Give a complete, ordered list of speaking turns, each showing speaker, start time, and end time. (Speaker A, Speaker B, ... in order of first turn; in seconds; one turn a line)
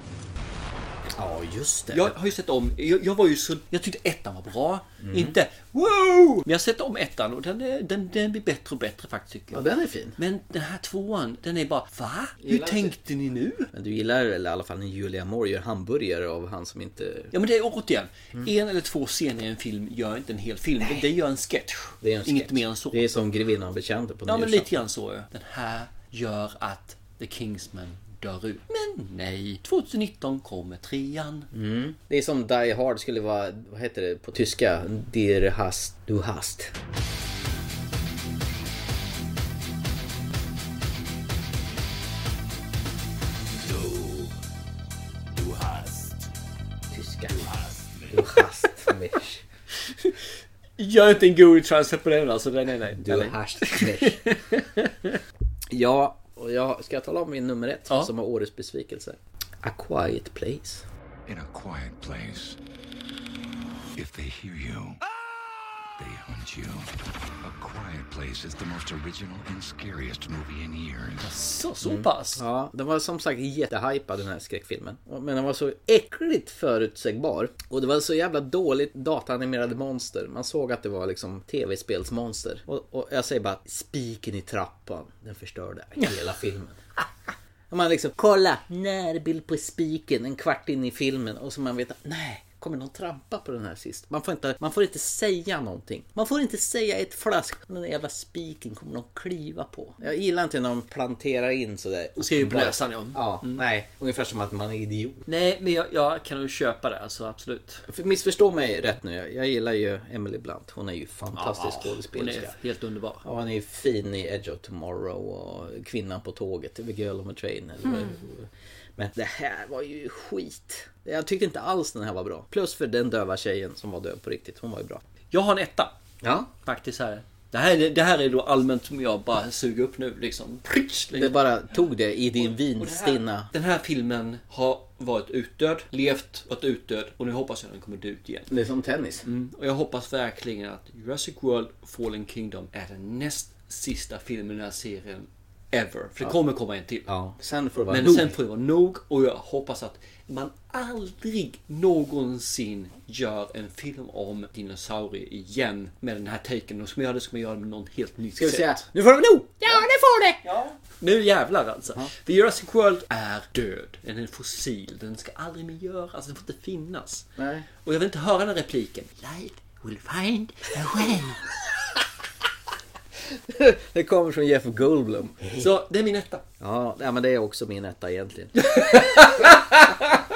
Speaker A: 1.2-2.2
Speaker B: 1.9-9.6
Speaker A: 5.0-5.3
Speaker A: 9.5-10.2
Speaker B: 10.2-13.7
Speaker A: 12.4-13.0
Speaker A: 13.7-17.3
Speaker B: 17.3-23.1
Speaker A: 22.0-24.7
Speaker B: 24.3-31.5
Speaker A: 31.5-36.7
Speaker A: 46.9-47.5
Speaker A: 48.1-49.4
Speaker B: 50.8-55.2
Speaker A: 53.0-54.2
Speaker A: 55.7-60.9
Speaker C: 61.3-62.6
Speaker C: 64.0-65.0
Speaker C: 66.0-66.9
Speaker C: 67.4-71.2
Speaker B: 71.2-72.4
Speaker A: 71.8-86.8
Speaker A: 87.7-105.2
Speaker B: 102.2-103.6
Speaker B: 105.3-107.8
Speaker A: 107.9-112.5
Speaker B: 111.3-113.2
Speaker A: 113.2-125.0
Speaker B: 125.3-126.0
Speaker A: 126.2-126.5
Speaker B: 126.6-131.4
Speaker A: 131.1-133.5
Speaker B: 132.4-138.5
Speaker A: 138.5-139.2
Speaker B: 139.2-147.1
Speaker A: 147.1-148.3
Speaker B: 147.9-158.8
Speaker A: 158.4-160.3
Speaker B: 160.4-167.3
Speaker A: 167.4-167.7
Speaker B: 167.8-171.4
Speaker A: 173.5-175.7
Speaker B: 175.6-176.4
Speaker A: 176.6-179.6
Speaker B: 178.7-180.0